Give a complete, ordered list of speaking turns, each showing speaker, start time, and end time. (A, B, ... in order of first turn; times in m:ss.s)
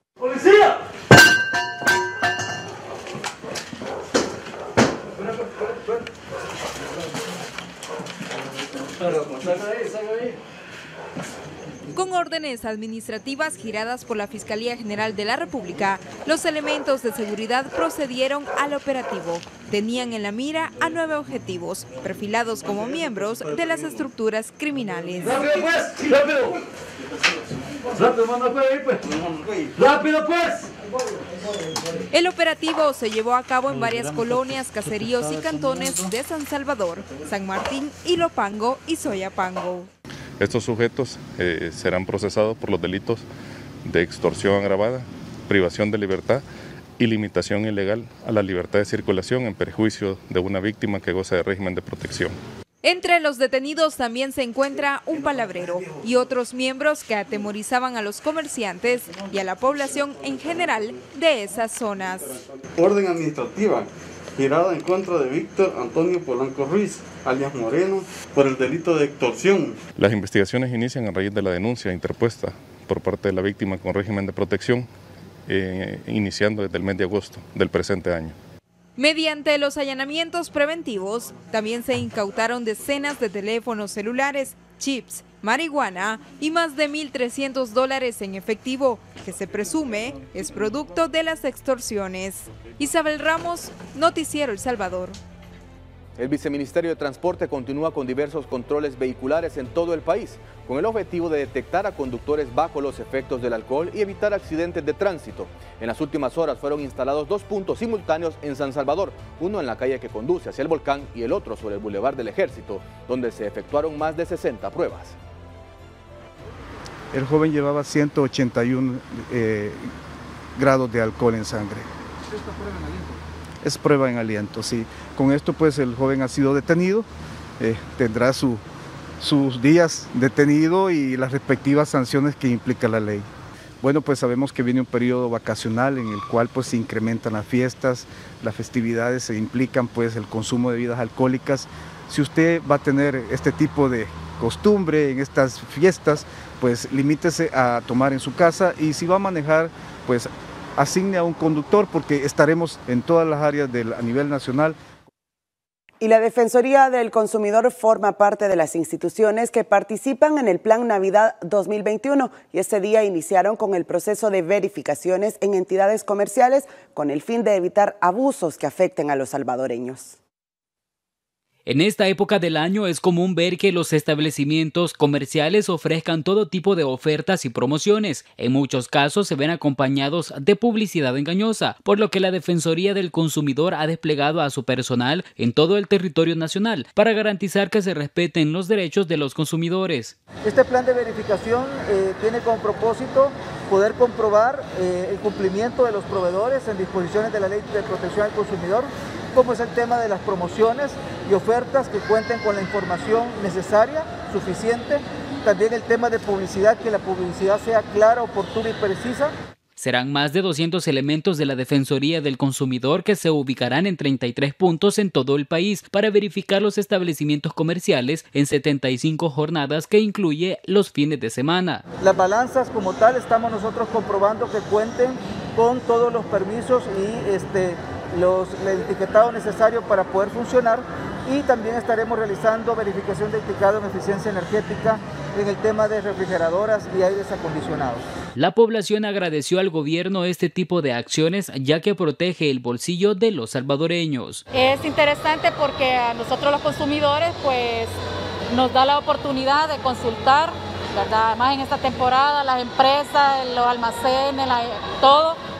0:11.9-0:25.9 A
0:32.1-0:39.9 A
0:40.4-0:43.2 B
0:43.8-0:46.4 B
0:47.0-0:52.3 B
0:52.8-1:02.4 A
1:02.8-1:09.8 C
1:10.0-1:14.9 B
1:15.5-1:18.4 B
1:19.0-1:35.2 A
1:36.2-1:55.1 D
1:57.1-1:59.9 E
2:00.6-2:01.9 E
2:02.3-2:03.0 F
2:03.6-2:07.1 E
2:07.6-2:08.6 E
2:09.2-2:13.2 E
2:13.8-2:34.8 E
2:36.0-2:50.2 G
2:51.7-3:10.1 H
3:10.4-3:29.3 F
3:29.8-3:41.8 H
3:42.0-3:58.0 F
3:58.4-4:04.4 H
4:04.5-4:07.9 I
4:08.5-4:15.4 I